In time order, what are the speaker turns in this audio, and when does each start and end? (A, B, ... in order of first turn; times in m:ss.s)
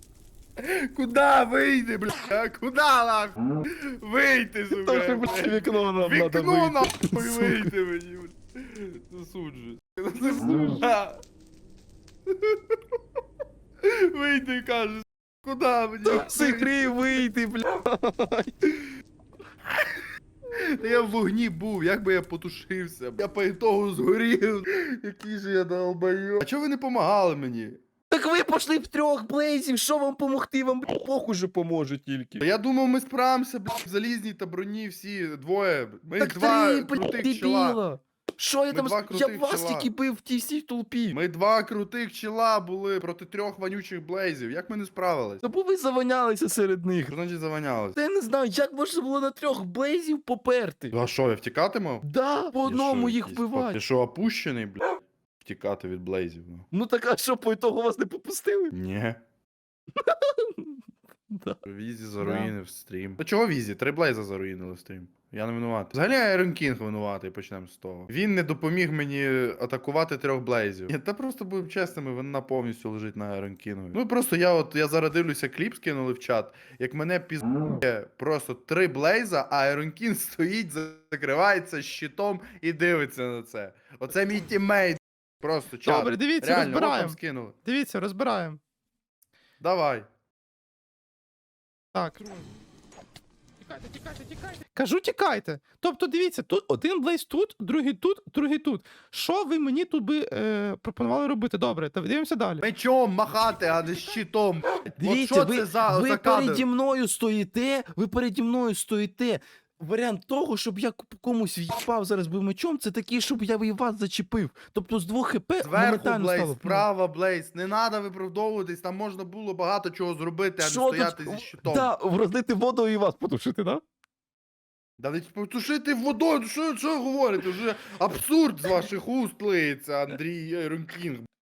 0:00.6-0:11.2 A
0:04.7-0:07.7 B
0:10.4-0:10.8 B
0:12.3-0:12.8 A
0:13.8-0:16.8 A
0:16.0-0:18.9 B
0:20.5-0:27.8 A
0:28.1-0:32.5 B
0:32.4-0:37.8 A
0:36.2-0:41.2 B
0:38.7-0:39.9 A
0:41.1-0:45.4 A
0:45.4-0:47.1 B
0:47.1-0:48.0 A
0:48.0-0:51.0 B
0:50.9-0:52.0 A
0:52.0-0:53.8 B
0:52.6-0:56.7 A
0:56.7-0:58.7 B
0:58.7-0:59.2 A
1:00.0-1:00.5 B
1:01.3-1:01.6 B
1:01.7-1:27.6 A
1:02.2-1:02.5 C
1:25.8-1:28.6 C
1:29.6-1:30.1 A
1:31.9-1:32.5 C
1:33.6-1:42.6 C
1:42.6-1:46.6 A
1:45.0-1:56.9 B
1:55.6-2:01.9 A
2:00.6-2:03.8 B
2:05.0-2:11.3 A